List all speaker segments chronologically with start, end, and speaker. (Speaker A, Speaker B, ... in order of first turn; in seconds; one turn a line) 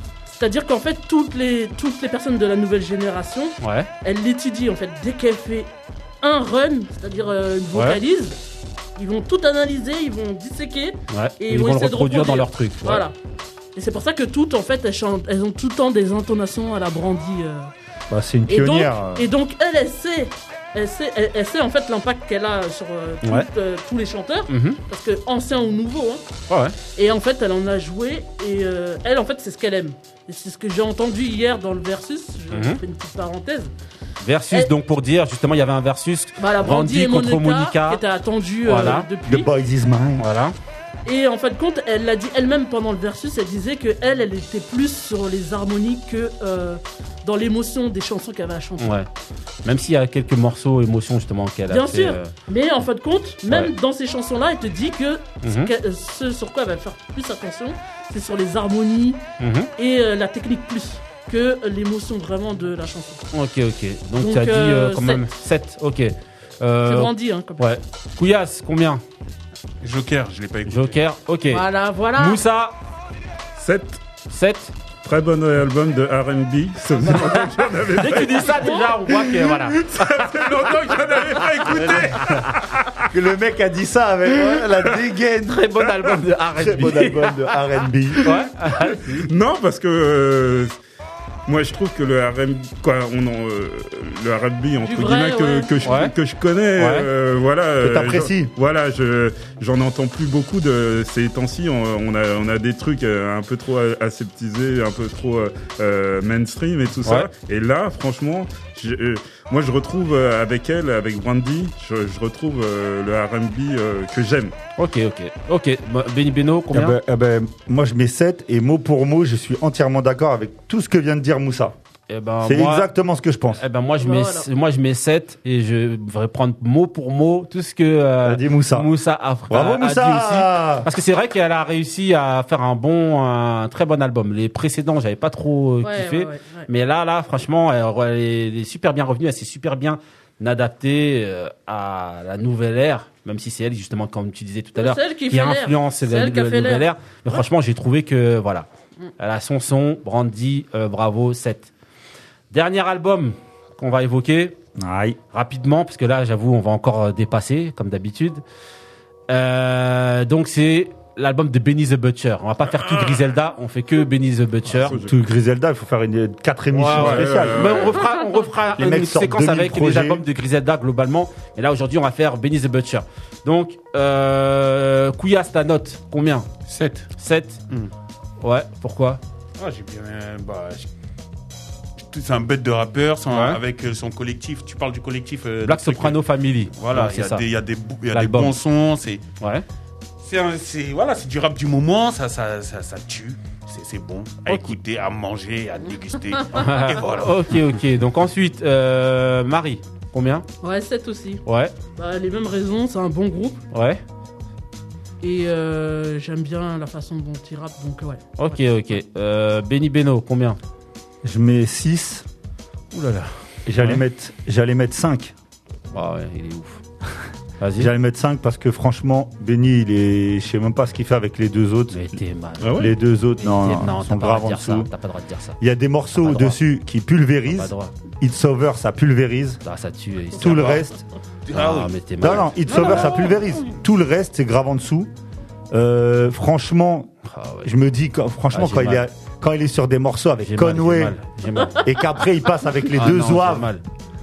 Speaker A: 0.3-5.7
Speaker B: 3.6-3.9
Speaker A: 6.2-8.4
Speaker B: 7.7-8.0
Speaker A: 9.0-13.1
Speaker B: 11.1-13.1
Speaker A: 13.8-17.7
Speaker C: 18.1-19.3
Speaker A: 18.5-26.2
Speaker B: 24.5-24.8
Speaker B: 26.5-26.8
Speaker A: 26.9-33.7
Speaker B: 32.5-32.8
Speaker B: 34.2-38.0
Speaker A: 36.4-39.5
Speaker B: 38.6-39.1
Speaker C: 39.2-40.2
Speaker B: 40.2-40.5
Speaker A: 41.1-49.0
Speaker B: 48.8-49.1
Speaker B: 49.6-52.3
Speaker A: 51.7-59.2
Speaker B: 55.4-55.7
Speaker B: 59.4-59.7
Speaker A: 59.8-63.2
Speaker B: 63.3-69.0
Speaker A: 64.2-65.3
Speaker A: 66.8-67.8
Speaker D: 69.8-71.0
Speaker B: 70.7-72.8
Speaker A: 71.5-72.4
Speaker E: 73.6-74.0
Speaker B: 74.3-74.7
Speaker E: 75.0-83.0
Speaker B: 78.0-79.9
Speaker A: 78.6-79.0
Speaker B: 81.7-82.4
Speaker C: 83.1-85.9
Speaker B: 85.5-87.5
Speaker C: 86.6-88.3
Speaker B: 88.2-89.3
Speaker E: 89.2-90.7
Speaker E: 91.5-114.5
Speaker A: 94.8-95.7
Speaker B: 95.8-96.1
Speaker B: 96.8-97.1
Speaker C: 97.8-98.5
Speaker B: 114.8-117.0
Speaker C: 116.7-121.8
Speaker B: 122.1-122.9
Speaker C: 122.4-123.6
Speaker B: 123.5-148.7
Speaker A: 124.0-124.5
Speaker C: 128.2-128.9
Speaker C: 129.5-130.9
Speaker A: 135.8-136.7
Speaker A: 144.8-146.9
Speaker B: 149.2-151.7
Speaker B: 152.5-154.6
Speaker C: 154.8-155.2
Speaker B: 155.3-158.4
Speaker B: 159.3-165.0
Speaker E: 162.8-163.2
Speaker E: 164.7-165.2
Speaker C: 165.0-168.0
Speaker B: 166.7-176.5
Speaker E: 166.9-168.0
Speaker C: 168.8-170.2
Speaker D: 176.7-177.1
Speaker B: 177.2-177.6
Speaker B: 178.4-179.2
Speaker D: 179.6-180.9
Speaker D: 182.0-189.2
Speaker B: 183.3-183.6
Speaker B: 185.7-187.4
Speaker B: 188.1-188.6
Speaker B: 189.4-189.7
Speaker D: 190.2-197.7
Speaker B: 194.5-194.7
Speaker B: 196.5-200.5
Speaker A: 200.6-201.4
Speaker B: 201.5-201.7
Speaker A: 202.0-203.6
Speaker B: 203.7-204.0
Speaker A: 205.2-208.4
Speaker B: 208.4-210.6
Speaker C: 211.2-212.2
Speaker B: 212.9-214.0
Speaker C: 213.7-215.3
Speaker B: 215.9-216.8
Speaker B: 217.6-217.9
Speaker C: 217.8-224.9
Speaker B: 221.9-225.6
Speaker C: 225.6-229.6
Speaker B: 226.2-226.6
Speaker B: 227.5-227.9
Speaker B: 229.6-230.9
Speaker C: 230.4-231.0
Speaker D: 231.5-231.9
Speaker B: 231.5-232.9
Speaker C: 232.2-235.1
Speaker A: 232.7-233.3
Speaker C: 235.7-237.1
Speaker B: 237.2-237.7
Speaker C: 237.6-241.2
Speaker B: 238.5-239.0
Speaker B: 240.4-241.8
Speaker C: 241.8-243.7
Speaker B: 242.9-243.8